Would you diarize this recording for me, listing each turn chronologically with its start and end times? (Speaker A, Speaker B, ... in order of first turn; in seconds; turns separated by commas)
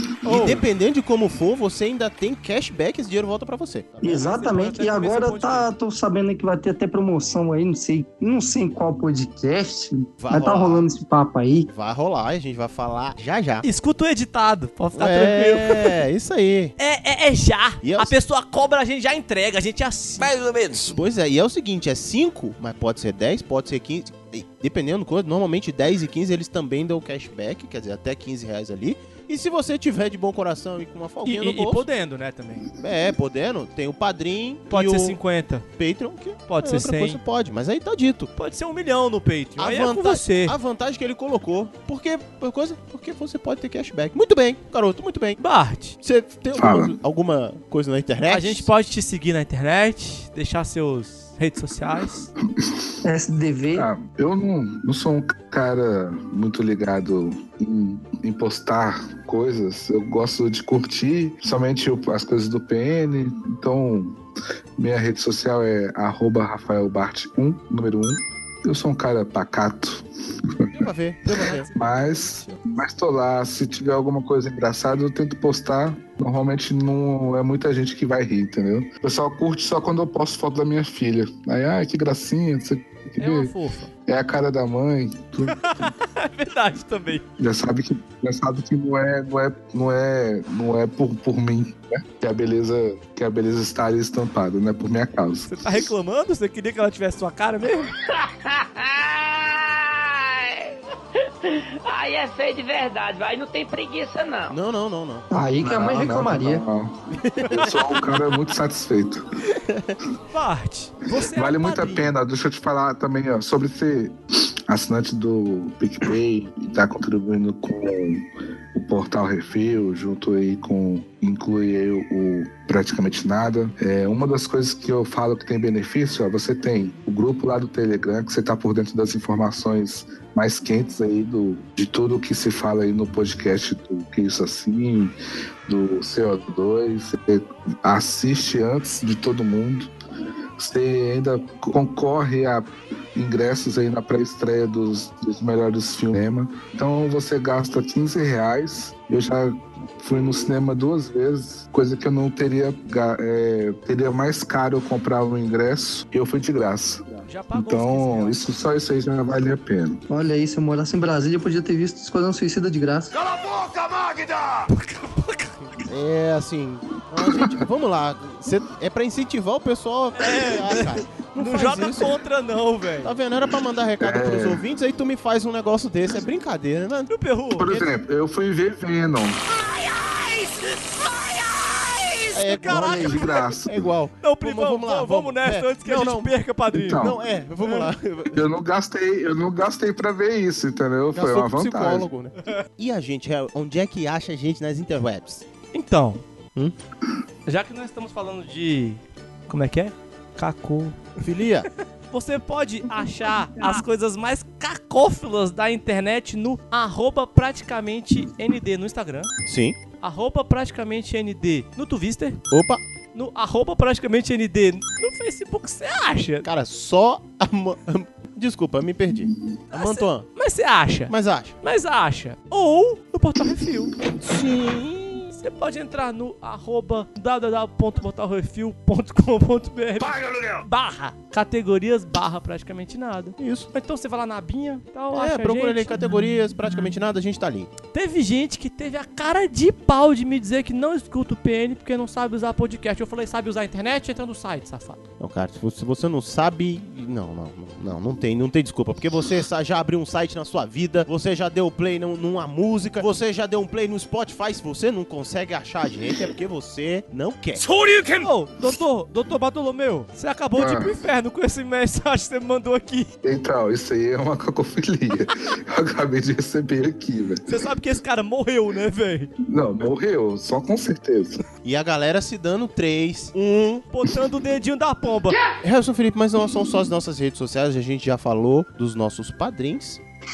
Speaker A: 0.2-0.6, Speaker B: 0.2-4.4, Speaker C: 4.0-11.7, Speaker A: 4.1-5.7, Speaker B: 10.2-10.8, Speaker B: 11.7-13.7, Speaker A: 13.6-16.0, Speaker B: 14.9-16.7, Speaker A: 16.8-20.3, Speaker B: 17.8-18.1, Speaker D: 20.2-21.0, Speaker B: 20.9-31.8, Speaker A: 31.2-32.7, Speaker B: 32.8-35.2, Speaker A: 34.7-35.7, Speaker B: 35.8-38.3, Speaker A: 36.5-37.2, Speaker A: 38.4-40.5, Speaker B: 39.6-45.4, Speaker A: 45.4-46.0, Speaker B: 46.0-48.7, Speaker E: 46.5-46.9, Speaker A: 48.3-52.3, Speaker E: 52.6-52.9, Speaker C: 53.0-53.9, Speaker E: 53.7-64.2, Speaker E: 64.8-70.9, Speaker B: 70.7-72.6, Speaker E: 71.7-83.5, Speaker A: 83.2-83.9, Speaker E: 84.1-85.6, Speaker A: 85.5-87.2, Speaker E: 87.4-95.9, Speaker A: 95.5-97.9, Speaker D: 98.1-100.8, Speaker D: 101.4-104.5, Speaker B: 104.5-105.3, Speaker C: 105.3-106.6, Speaker E: 105.6-107.0, Speaker B: 107.1-107.7, Speaker E: 107.5-109.2, Speaker B: 109.5-110.0, Speaker A: 110.3-112.1, Speaker E: 111.2-139.9, Speaker E: 140.6-160.0, Speaker A: 157.3-158.4, Speaker C: 160.1-163.2, Speaker A: 164.7-165.7, Speaker B: 165.9-172.1, Speaker E: 167.3-167.5, Speaker A: 170.2-173.1, Speaker B: 173.0-177.1, Speaker E: 174.0-174.6, Speaker A: 177.1-177.7, Speaker E: 177.6-179.4, Speaker A: 179.9-181.7, Speaker B: 182.3-183.0, Speaker A: 182.3-183.4, Speaker C: 182.7-183.2, Speaker E: 182.9-183.7, Speaker B: 183.7-186.3, Speaker A: 184.2-187.0, Speaker E: 186.7-187.2, Speaker B: 187.0-188.4, Speaker A: 187.6-187.9, Speaker E: 188.3-192.1, Speaker B: 191.1-195.4, Speaker A: 195.7-196.2, Speaker A: 197.5-201.0, Speaker B: 201.2-201.7, Speaker A: 202.1-209.3, Speaker B: 209.4-209.8, Speaker A: 210.0-212.4, Speaker B: 212.5-212.8, Speaker A: 213.1-216.4, Speaker B: 216.4-220.3, Speaker A: 219.7-236.1, Speaker B: 221.1-221.5, Speaker B: 233.4-233.7, Speaker B: 235.1-237.7, Speaker A: 237.9-245.0, Speaker B: 245.2-257.6, Speaker A: 258.1-263.1, Speaker E: 260.6-261.0, Speaker E: 263.2-267.5, Speaker A: 267.5-269.3, Speaker E: 269.4-271.4, Speaker B: 271.6-273.8, Speaker A: 273.9-275.4, Speaker B: 275.6-280.0